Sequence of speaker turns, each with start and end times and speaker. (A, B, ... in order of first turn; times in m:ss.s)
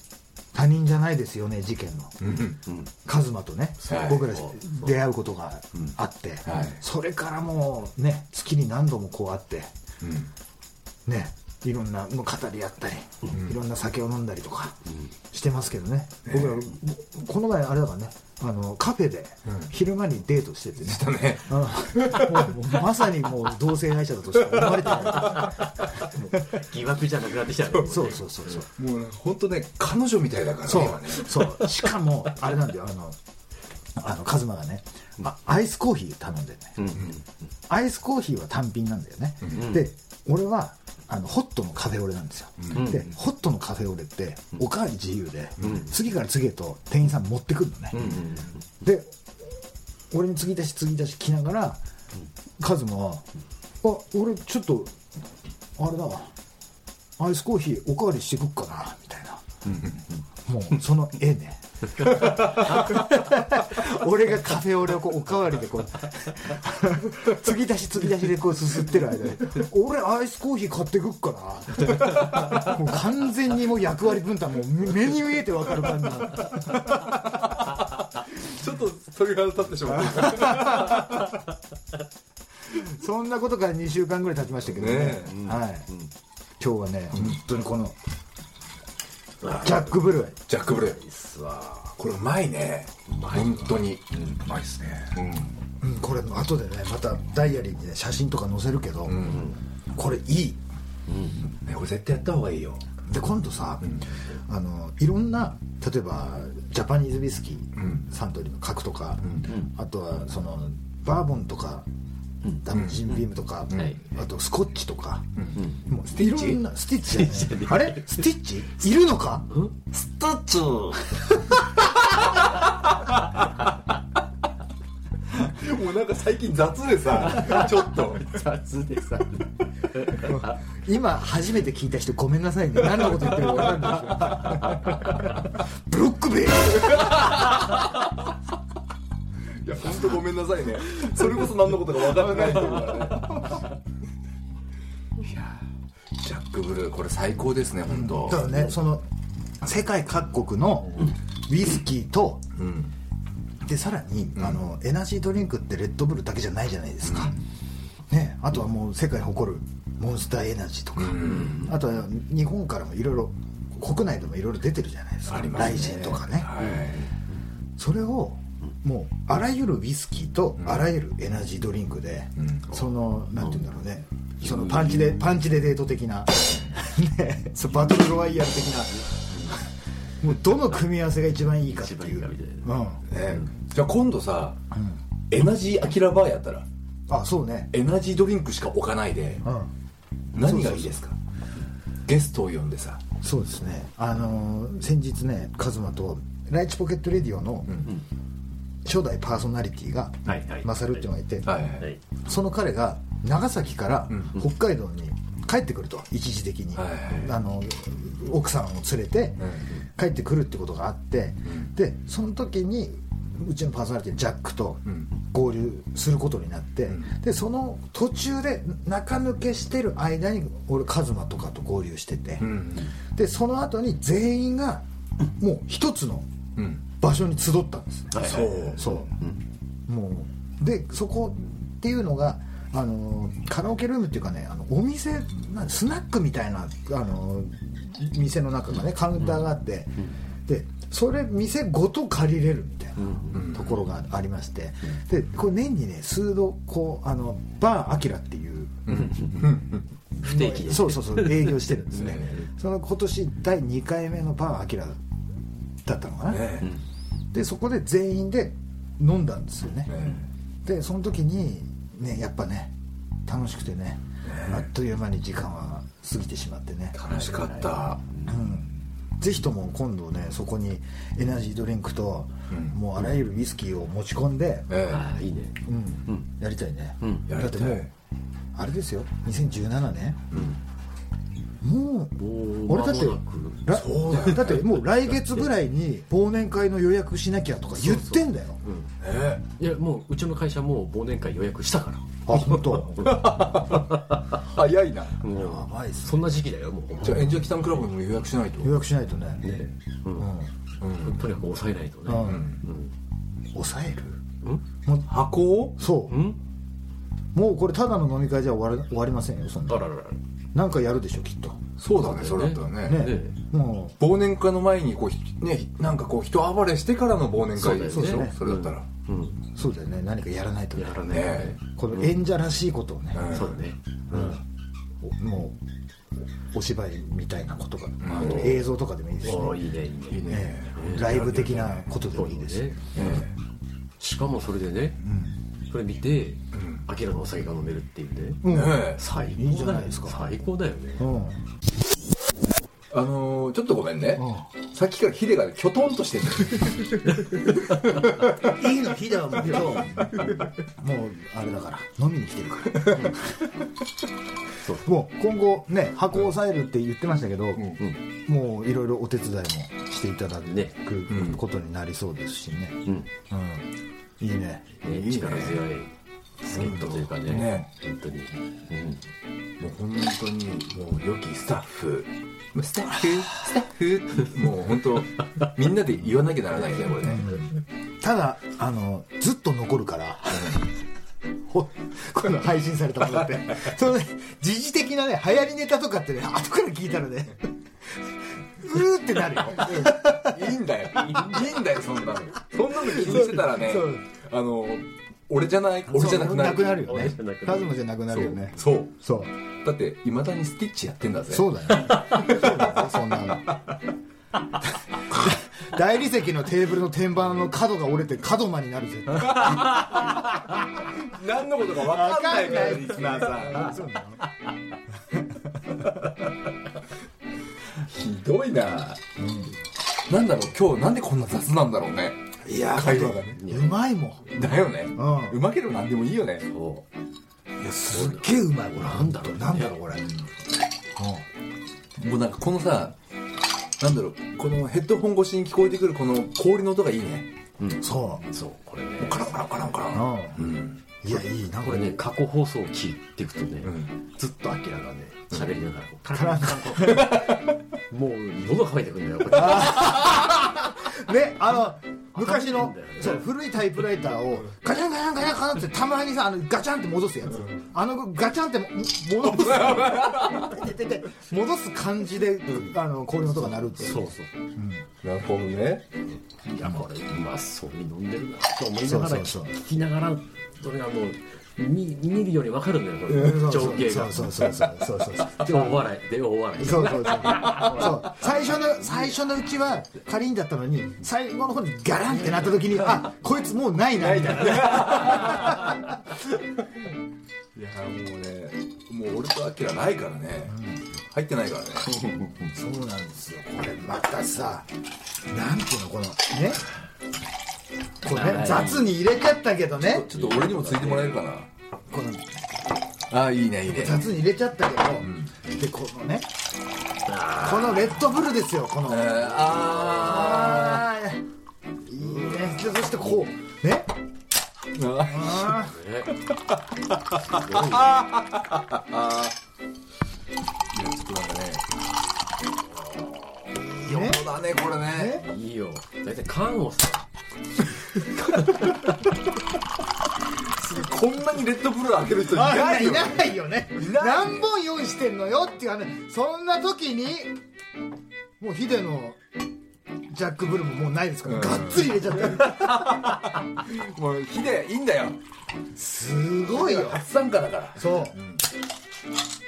0:00.5-0:02.1 A
0:02.2-0:02.6 B
0:03.1-0:09.7 A
0:03.9-0:04.3 B
0:04.3-0:04.9 C
0:06.4-0:06.8 B
0:10.0-0:10.3 B
0:11.1-0:14.8 A
0:13.3-0:13.6 B
0:15.3-0:26.6 A
0:16.2-0:16.6 B
0:20.8-0:22.5 B
0:26.3-0:28.6 C
0:27.8-0:28.7 A
0:28.6-0:31.5 B
0:30.6-0:33.2 A
0:34.0-0:36.9 A
0:36.8-0:37.2 C
0:37.7-0:48.0 A
0:39.5-0:39.8 C
0:42.6-0:42.9 B
0:42.8-0:43.1 C
0:45.6-0:45.9 C
0:47.9-0:48.6 C
0:48.0-0:48.2 B
0:48.8-0:49.2 A
0:50.1-0:51.8 A
0:52.6-0:53.2 A
0:53.8-0:55.0 A
0:55.8-0:56.3 A
0:57.2-0:59.8 A
1:00.4-1:17.2 A
1:17.2-1:21.3 B
1:20.1-1:21.3 A
1:22.7-1:25.9 A
1:24.7-1:25.4 B
1:25.2-1:26.1 C
1:26.6-1:28.0 A
1:27.1-1:27.4 B
1:29.4-1:30.0 C
1:29.6-1:30.4 A
1:30.5-1:31.0 B
1:30.7-1:31.9 C
1:32.0-1:35.5 B
1:33.1-1:34.4 C
1:35.8-1:39.2 A
1:39.1-1:39.5 B
1:39.2-1:39.6 C
1:39.9-1:40.6 A
1:41.1-1:41.4 C
1:41.5-1:42.8 B
1:43.1-1:51.8 A
1:47.8-1:48.1 B
1:49.2-1:49.5 B
1:52.6-1:55.3 A
1:52.7-1:53.2 B
1:53.7-1:54.0 C
1:55.6-1:55.8 C
1:55.9-1:59.5 A
1:56.1-1:56.6 B
1:57.1-1:58.2 C
1:59.5-2:01.6 C
2:05.3-2:08.4 B
2:07.3-2:10.4 C
2:10.2-2:17.6 A
2:12.9-2:14.8 B
2:16.9-2:18.0 B
2:19.6-2:23.6 B
2:25.2-2:25.6 B
2:26.2-2:28.4 B
2:28.0-2:29.1 A
2:29.6-2:32.4 A
2:32.6-2:32.9 B
2:33.6-2:37.4 A
2:37.1-2:37.4 B
2:38.1-2:46.6 A
2:41.0-2:41.6 B
2:41.3-2:41.7 C
2:45.3-2:47.1 B
2:46.6-2:47.2 C
2:47.8-3:03.0 A
2:50.6-2:50.9 B
2:52.4-2:52.7 B
2:54.4-2:55.2 C
3:01.7-3:02.7 C
3:03.1-3:04.6 B
3:04.7-3:05.0 A
3:05.3-3:06.6 B
3:07.1-3:07.7 A
3:07.7-3:09.4 B
3:09.4-3:09.7 A
3:10.3-3:11.1 B
3:10.4-3:11.0 A
3:12.1-3:13.0 B
3:13.2-3:17.7 A
3:18.8-3:21.5 A
3:20.2-3:21.0 C
3:21.4-3:21.9 B
3:22.2-3:42.5 A
3:24.1-3:24.4 B
3:26.8-3:27.3 B
3:29.4-3:29.6 B
3:42.4-3:42.9 B
3:43.1-3:44.8 A
3:45.4-3:46.3 A
3:46.6-3:46.8 B
3:46.9-3:49.1 A
3:48.1-3:49.4 C
3:48.2-3:49.0 B
3:49.9-4:08.9 A
4:03.0-4:03.5 C
4:03.3-4:03.8 B
4:08.9-4:09.8 B
4:08.9-4:09.5 C
4:10.2-4:12.4 C
4:10.2-4:15.0 A
4:11.9-4:12.4 B
4:15.8-4:16.6 A
4:16.3-4:16.7 B
4:17.3-4:19.9 A
4:19.9-4:20.3 B
4:20.6-4:22.7 A
4:23.2-4:27.0 A
4:24.2-4:24.7 B
4:27.0-4:28.3 C
4:27.0-4:28.0 B
4:28.3-4:34.7 A
4:32.5-4:32.8 B
4:34.7-4:35.0 B
4:34.9-4:36.3 C
4:35.6-4:37.9 A
4:37.0-4:37.2 C
4:37.3-4:37.9 B
4:38.5-4:40.2 A
4:41.6-4:48.6 A
4:42.2-4:44.6 C
4:43.7-4:44.7 B
4:45.2-4:45.5 C
4:47.8-4:48.9 C
4:49.0-4:49.4 B
4:49.6-4:54.2 C
4:52.2-4:53.1 A
4:52.8-4:55.2 B
4:55.2-4:57.4 C
4:55.3-4:56.2 A
4:57.0-4:58.8 B
4:58.6-4:59.5 A
4:59.4-5:00.3 C
5:00.2-5:00.5 A
5:00.8-5:01.3 B
5:00.9-5:02.9 C
5:02.1-5:02.5 A
5:02.2-5:02.6 B
5:03.5-5:04.2 A
5:05.1-5:05.8 B
5:05.8-5:06.2 A
5:06.1-5:06.4 C
5:07.3-5:09.8 A
5:09.7-5:10.2 C
5:10.5-5:11.6 A
5:11.8-5:13.1 B
5:11.9-5:13.4 C
5:12.8-5:14.0 A
5:14.0-5:18.8 B
5:17.6-5:19.4 C
5:17.9-5:18.4 A
5:19.5-5:23.4 A
5:20.8-5:22.0 C
5:21.1-5:21.6 B
5:23.1-5:23.6 B
5:23.3-5:24.4 C
5:24.1-5:24.4 A
5:25.0-5:25.6 A
5:26.5-5:29.6 A
5:28.0-5:28.6 B
5:28.1-5:28.6 C
5:29.2-5:31.3 C
5:30.1-5:31.9 B
5:30.3-5:33.1 A
5:32.1-5:33.1 C
5:33.0-5:33.3 B
5:34.0-5:35.0 C
5:35.0-5:35.3 A
5:35.7-5:41.1 C
5:36.5-5:36.8 B
5:38.4-5:40.4 A
5:38.5-5:39.0 B
5:41.0-5:41.4 A
5:42.9-5:48.1 B
5:44.2-5:44.5 A
5:48.4-5:50.4 C
5:49.4-5:50.0 A
5:49.5-5:50.0 B
5:50.8-5:53.5 A
5:54.8-6:03.7 A
6:00.5-6:00.7 C
6:01.1-6:01.4 B
6:04.2-6:04.8 A
6:04.8-6:05.9 C
6:04.9-6:05.6 B
6:06.4-6:09.0 C
6:06.5-6:07.7 B
6:07.3-6:07.6 A
6:09.6-6:17.5 B
6:17.1-6:17.5 A
6:18.0-6:20.6 A
6:21.5-6:31.3 A
6:29.5-6:37.1 B
6:31.0-6:31.6 C
6:32.8-6:34.0 A
6:35.9-6:39.3 A
6:36.8-6:37.7 C
6:38.1-6:39.0 B
6:39.6-6:42.9 B
6:41.3-6:43.5 A
6:44.9-6:50.9 A
6:49.2-6:50.1 B
6:50.9-6:53.9 B
6:51.8-6:54.2 A
6:55.1-6:55.6 A
6:57.7-6:59.0 B
6:59.2-6:59.5 A
7:00.1-7:03.4 B
7:02.4-7:04.4 A
7:03.4-7:03.8 C
7:04.3-7:06.5 B
7:04.9-7:05.4 A
7:06.5-7:06.9 C
7:07.6-7:10.1 A
7:07.9-7:10.0 C
7:11.0-7:11.2 A
7:12.0-7:13.0 B
7:13.8-7:17.3 B
7:17.6-7:19.3 C
7:17.8-7:18.2 A
7:19.0-7:20.8 B
7:19.9-7:20.4 A
7:21.0-7:22.0 A
7:21.6-7:27.4 C
7:23.6-7:23.9 B
7:26.1-7:27.3 A
7:27.9-7:30.1 C
7:29.3-7:44.9 A
7:32.2-7:33.2 C
7:39.2-7:40.7 B
7:43.7-7:44.3 C
7:45.0-7:45.9 B
7:46.4-7:54.7 C
7:48.8-7:49.6 A
7:53.1-7:53.5 B
7:53.1-7:55.7 A
7:55.2-7:58.2 C
7:56.6-8:06.0 A
7:57.2-7:57.9 B
8:04.0-8:05.9 B
8:07.5-8:10.6 B
8:10.5-8:10.8 A
8:11.1-8:12.0 B
8:12.0-8:12.4 C
8:12.5-8:14.7 A
8:15.3-8:16.6 A
8:18.0-8:20.1 A
8:18.1-8:19.0 C
8:19.8-8:21.5 B
8:20.1-8:21.2 C
8:21.9-8:22.4 A
8:23.1-8:24.1 B
8:23.7-8:26.3 A
8:25.0-8:25.3 B
8:27.0-8:28.0 C
8:27.4-8:31.2 A
8:28.9-8:30.9 B
8:31.8-8:33.9 A
8:32.0-8:32.5 C
8:34.7-8:35.7 B
8:35.1-8:35.8 A
8:35.6-8:36.1 C
8:36.3-8:39.4 B
8:37.3-8:37.9 C
8:40.7-8:41.7 B
8:43.6-8:44.2 A
8:43.6-8:45.2 B
8:44.9-8:45.2 A
8:45.2-8:47.1 C
8:48.0-8:48.8 C
8:50.6-8:54.5 B
8:52.3-8:57.3 A
8:58.4-8:59.2 A
9:00.1-9:03.1 A
9:01.3-9:05.2 B
9:05.8-9:07.0 A
9:06.5-9:08.4 B
9:07.8-9:08.2 A